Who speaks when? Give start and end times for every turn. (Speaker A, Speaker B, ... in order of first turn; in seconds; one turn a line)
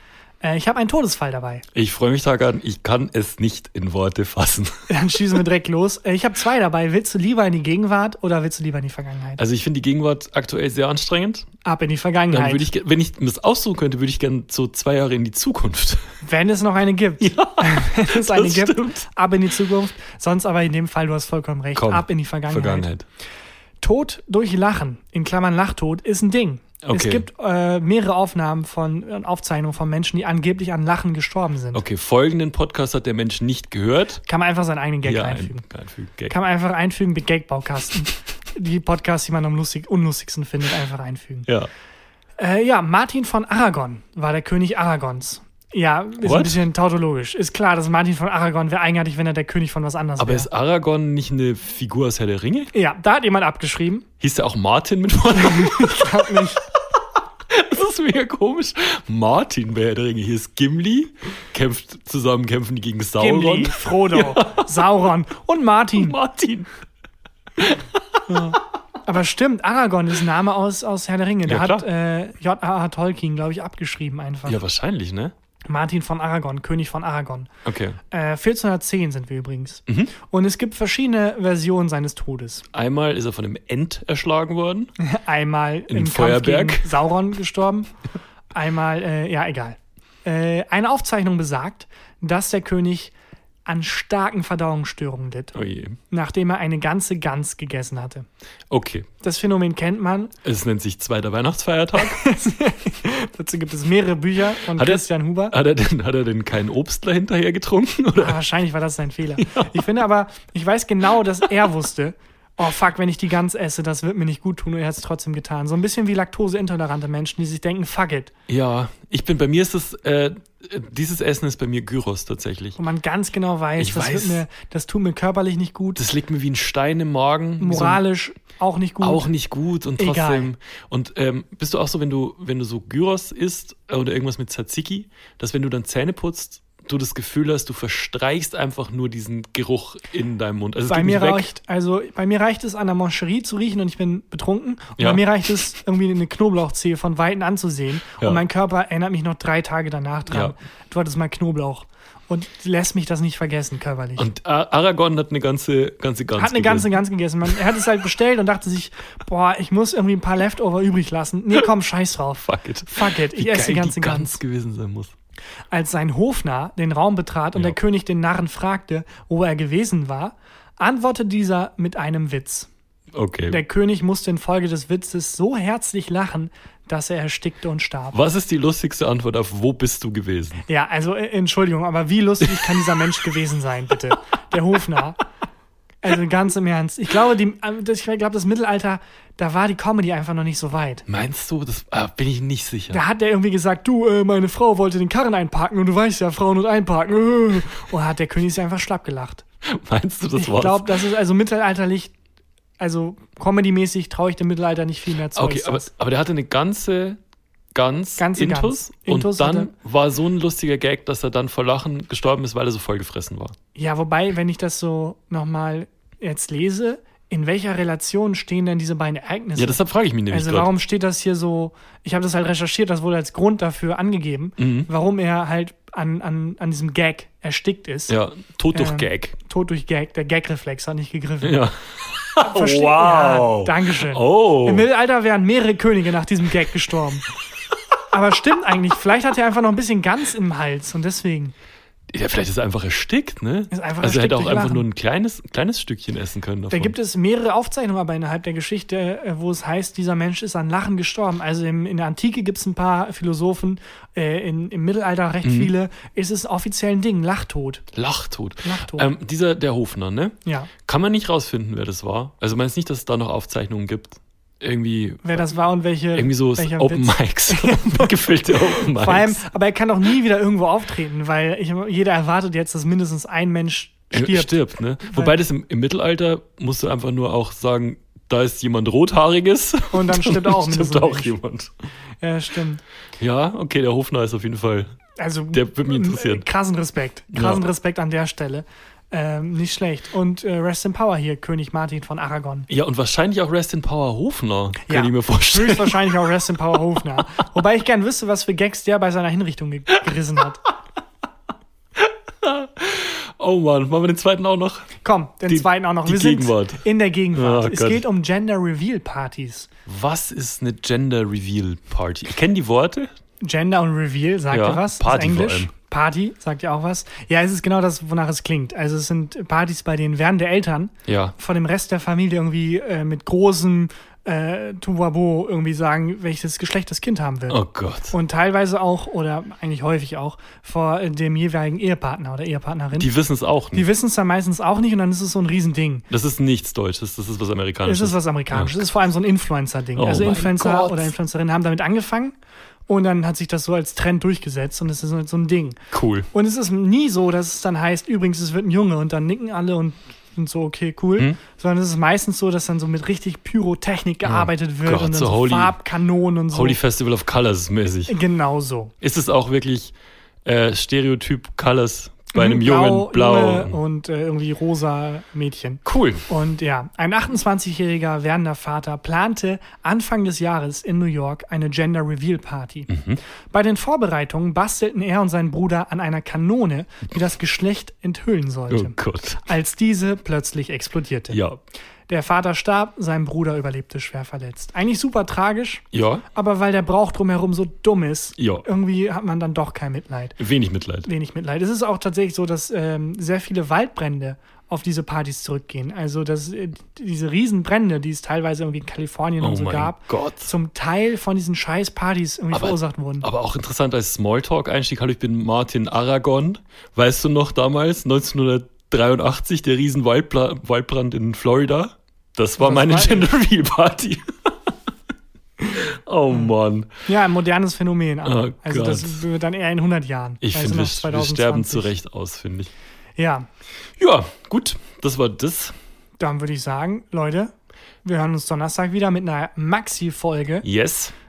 Speaker A: 0.4-1.6
Speaker B: 1.7-5.2
Speaker A: 4.9-9.4
Speaker B: 9.4-11.5
Speaker A: 11.6-12.7
Speaker B: 12.3-16.0
Speaker A: 16.2-22.9
Speaker B: 17.2-19.1
Speaker B: 21.8-23.1
Speaker A: 23.8-31.8
Speaker B: 26.8-27.3
Speaker B: 31.7-34.2
Speaker A: 34.2-35.6
Speaker B: 35.0-36.3
Speaker A: 36.3-41.5
Speaker A: 42.4-50.5
Speaker B: 46.2-46.6
Speaker B: 50.2-52.7
Speaker A: 52.7-54.1
Speaker B: 54.2-56.6
Speaker A: 55.4-56.6
Speaker B: 57.5-64.7
Speaker A: 63.2-66.2
Speaker B: 65.9-66.7
Speaker B: 67.6-68.6
Speaker A: 68.3-74.6
Speaker B: 71.5-71.9
Speaker B: 74.5-75.3
Speaker A: 75.7-77.5
Speaker B: 77.7-78.0
Speaker A: 78.1-82.7
Speaker B: 79.9-80.1
Speaker B: 82.7-84.9
Speaker A: 85.0-87.9
Speaker B: 85.9-87.1
Speaker A: 88.5-93.1
Speaker A: 93.7-95.6
Speaker B: 95.5-96.0
Speaker A: 96.1-98.3
Speaker B: 98.7-99.1
Speaker A: 99.2-100.3
Speaker B: 100.4-102.3
Speaker A: 102.0-105.6
Speaker B: 104.7-108.4
Speaker A: 108.2-118.3
Speaker B: 109.4-109.8
Speaker B: 118.5-122.8
Speaker A: 122.8-126.0
Speaker B: 123.8-124.5
Speaker B: 126.0-128.0
Speaker A: 127.6-129.3
Speaker B: 129.0-141.5
Speaker A: 130.0-130.5
Speaker A: 140.9-154.3
Speaker B: 145.0-145.2
Speaker B: 148.2-148.4
Speaker B: 150.3-150.6
Speaker B: 154.2-157.6
Speaker A: 156.4-164.4
Speaker B: 162.4-165.1
Speaker A: 165.7-172.7
Speaker B: 173.1-173.6
Speaker A: 173.5-178.2
Speaker B: 178.1-180.7
Speaker A: 180.7-185.2
Speaker B: 182.5-183.2
Speaker A: 186.0-191.1
Speaker B: 191.1-193.0
Speaker A: 192.9-199.4
Speaker B: 199.7-201.0
Speaker A: 200.3-202.1
Speaker A: 202.8-205.9
Speaker B: 205.3-207.2
Speaker B: 207.7-213.6
Speaker A: 208.2-209.7
Speaker A: 213.8-228.2
Speaker B: 219.6-220.7
Speaker B: 224.6-224.9
Speaker B: 228.1-229.4
Speaker A: 228.7-231.7
Speaker B: 231.4-234.9
Speaker A: 232.4-237.3
Speaker A: 238.1-241.5
Speaker B: 242.1-246.9
Speaker A: 243.7-244.9
Speaker A: 246.7-257.9
Speaker B: 255.4-255.7
Speaker B: 257.9-265.6
Speaker A: 258.6-259.1
Speaker A: 260.4-260.7
Speaker A: 265.2-275.4
Speaker B: 266.1-269.4
Speaker B: 274.1-281.7
Speaker A: 279.9-281.4
Speaker A: 282.2-282.8
Speaker B: 283.2-284.9
Speaker A: 285.2-292.7
Speaker B: 285.5-286.4
Speaker B: 287.3-287.7
Speaker B: 292.7-297.4
Speaker A: 294.9-300.6
Speaker B: 302.0-305.0
Speaker A: 305.0-309.7
Speaker B: 305.5-308.1
Speaker B: 309.9-313.1
Speaker A: 313.4-333.1
Speaker B: 314.5-315.7
Speaker B: 321.1-321.4
Speaker B: 327.5-328.2
Speaker B: 332.9-333.9
Speaker A: 333.7-336.1
Speaker B: 336.1-338.8
Speaker A: 337.9-342.4
Speaker B: 339.9-341.1
Speaker A: 342.9-345.8
Speaker B: 345.9-346.3
Speaker A: 346.3-356.8
Speaker B: 354.2-355.8
Speaker B: 356.5-358.2
Speaker A: 358.1-358.9
Speaker B: 359.0-359.9
Speaker B: 360.4-363.8
Speaker A: 362.3-372.9
Speaker B: 365.9-366.3
Speaker B: 372.9-373.2
Speaker A: 373.5-381.4
Speaker B: 378.7-379.4
Speaker B: 381.3-381.6
Speaker A: 382.1-390.4
Speaker B: 385.9-386.3
Speaker B: 388.4-388.7
Speaker B: 390.4-391.1
Speaker A: 391.0-403.3
Speaker B: 399.4-400.5
Speaker B: 402.5-414.2
Speaker A: 412.6-413.3
Speaker B: 415.6-416.9
Speaker A: 417.1-421.9
Speaker B: 418.2-419.2
Speaker B: 420.4-422.7
Speaker A: 423.2-423.5
Speaker B: 424.0-425.8
Speaker A: 426.2-427.5
Speaker A: 428.0-430.7
Speaker B: 430.6-431.1